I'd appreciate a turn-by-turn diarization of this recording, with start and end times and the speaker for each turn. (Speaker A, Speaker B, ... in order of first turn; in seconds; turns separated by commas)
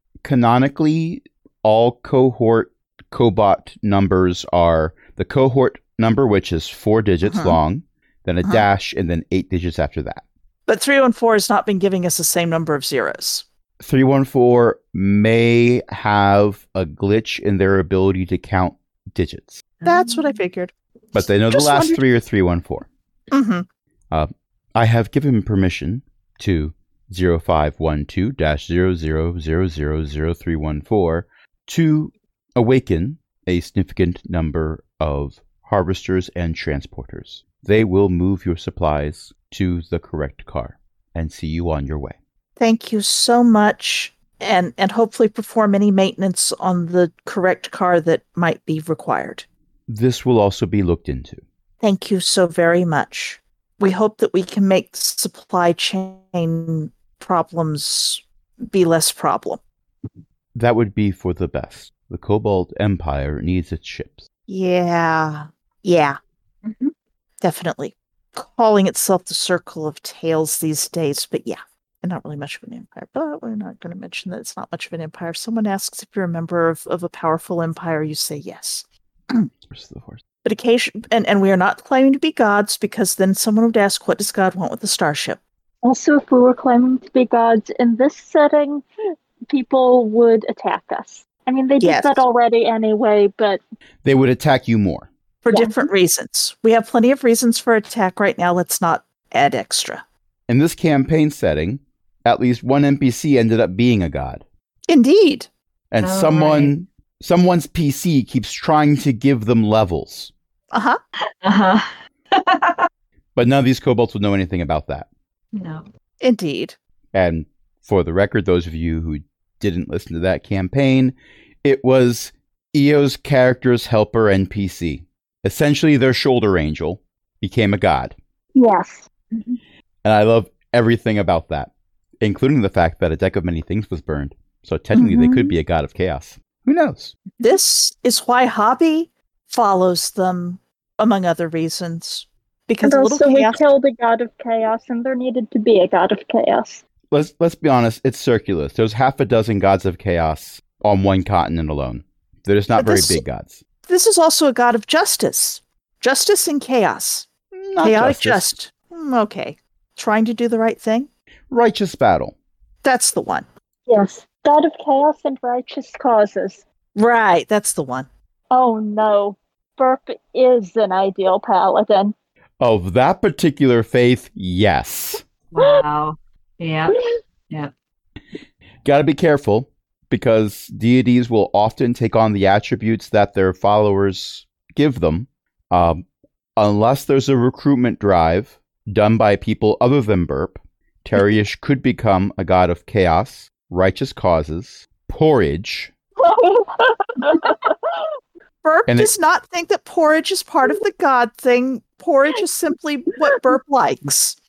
Speaker A: 0.2-10.2, Speaker B: 7.2-7.6, Speaker B: 10.7-13.4, Speaker A: 13.8-19.6, Speaker B: 19.8-20.7, Speaker A: 21.1-22.9, Speaker B: 21.5-22.0, Speaker B: 23.3-23.7, Speaker A: 24.1-42.2, Speaker B: 42.6-49.5, Speaker A: 49.9-51.4, Speaker B: 51.8-59.6, Speaker A: 60.5-64.2, Speaker B: 64.5-66.2, Speaker B: 67.4-79.5, Speaker A: 79.7-80.2, Speaker B: 80.4-85.4, Speaker C: 85.8-88.8, Speaker C: 89.5-93.6, Speaker B: 91.8-92.2, Speaker A: 94.0-95.1, Speaker B: 95.4-100.0, Speaker C: 95.5-95.9, Speaker A: 100.5-104.4, Speaker B: 104.9-105.5, Speaker A: 105.9-110.3, Speaker D: 106.0-106.7, Speaker B: 110.7-111.0, Speaker D: 111.4-112.9, Speaker A: 113.4-115.1, Speaker D: 115.5-115.9, Speaker B: 116.2-116.8, Speaker A: 117.1-128.2, Speaker C: 128.6-129.1, Speaker A: 130.0-137.1, Speaker B: 135.1-135.4, Speaker B: 137.4-143.6, Speaker C: 142.8-146.8, Speaker A: 147.1-153.6, Speaker B: 152.8-153.2, Speaker B: 153.9-157.3, Speaker A: 157.5-158.5, Speaker B: 157.8-161.1, Speaker A: 161.5-162.3, Speaker B: 162.8-163.5, Speaker C: 163.9-166.6, Speaker B: 166.9-168.1, Speaker C: 168.5-172.1, Speaker A: 172.6-175.2, Speaker D: 175.5-177.7, Speaker A: 178.8-186.0, Speaker A: 186.6-195.9, Speaker C: 196.2-197.7, Speaker B: 198.6-204.4